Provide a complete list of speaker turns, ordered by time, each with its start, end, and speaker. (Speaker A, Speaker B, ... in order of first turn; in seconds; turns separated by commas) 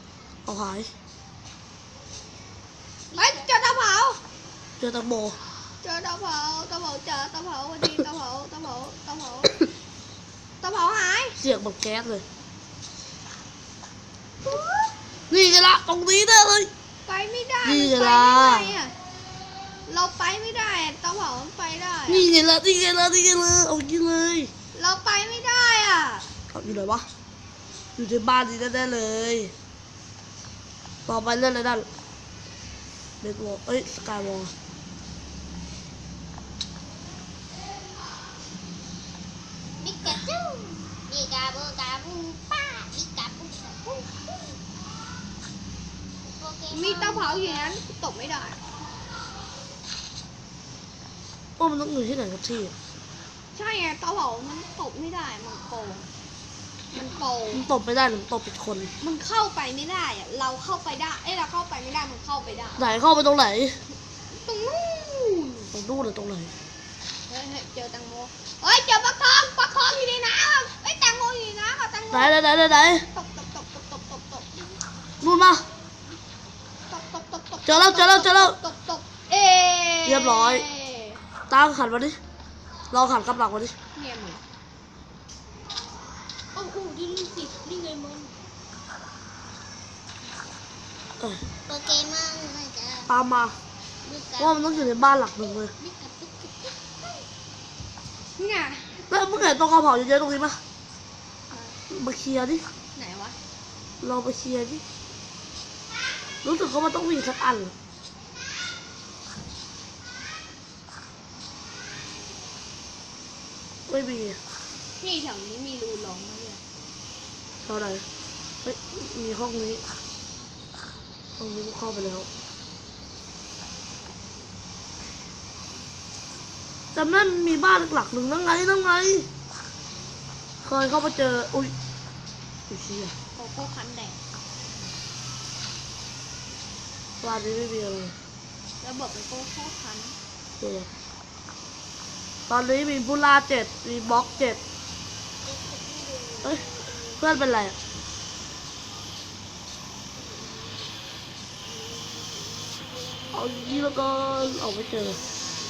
Speaker A: 0.5-0.9, Speaker B: 3.1-3.5, Speaker C: 3.1-4.2, Speaker A: 4.8-5.4, Speaker C: 5.8-9.5, Speaker C: 10.6-11.4, Speaker A: 11.4-12.2, Speaker C: 14.4-14.9, Speaker A: 15.3-16.7, Speaker C: 17.1-18.9, Speaker A: 17.6-18.7, Speaker C: 19.9-22.3, Speaker A: 22.1-24.5, Speaker C: 24.7-26.3, Speaker A: 26.5-27.1, Speaker A: 27.9-29.5, Speaker A: 31.1-31.9, Speaker A: 33.2-34.5, Speaker B: 39.8-44.6, Speaker B: 46.2-47.8, Speaker C: 46.7-48.6, Speaker A: 51.6-52.7, Speaker C: 53.5-56.1, Speaker C: 56.9-57.7, Speaker A: 57.5-58.9, Speaker C: 59.0-62.9, Speaker A: 62.8-63.8, Speaker C: 64.3-65.7, Speaker A: 65.7-66.5, Speaker C: 67.3-72.4, Speaker A: 72.1-73.1, Speaker C: 73.1-74.8, Speaker A: 75.2-75.6, Speaker C: 76.9-81.2, Speaker A: 77.6-78.6, Speaker A: 80.0-80.7, Speaker A: 81.5-82.2, Speaker A: 82.9-83.7, Speaker C: 83.9-84.4, Speaker B: 86.5-88.3, Speaker B: 91.7-93.1, Speaker A: 93.1-93.6, Speaker B: 94.0-97.2, Speaker A: 94.4-95.7, Speaker C: 98.4-99.0, Speaker A: 99.1-100.6, Speaker C: 101.5-101.8, Speaker A: 101.9-102.7, Speaker C: 102.9-103.3, Speaker A: 104.0-104.8, Speaker A: 106.4-107.7, Speaker A: 113.9-114.4, Speaker C: 115.0-116.6, Speaker A: 117.6-118.0, Speaker A: 118.6-119.8, Speaker A: 121.4-122.3, Speaker A: 126.9-129.3, Speaker A: 130.6-131.7, Speaker A: 132.7-133.1, Speaker C: 133.3-134.2, Speaker A: 137.2-138.1, Speaker C: 138.8-140.2, Speaker A: 140.6-140.9, Speaker A: 142.5-144.6, Speaker B: 145.4-147.2, Speaker A: 147.2-147.7, Speaker A: 153.3-155.2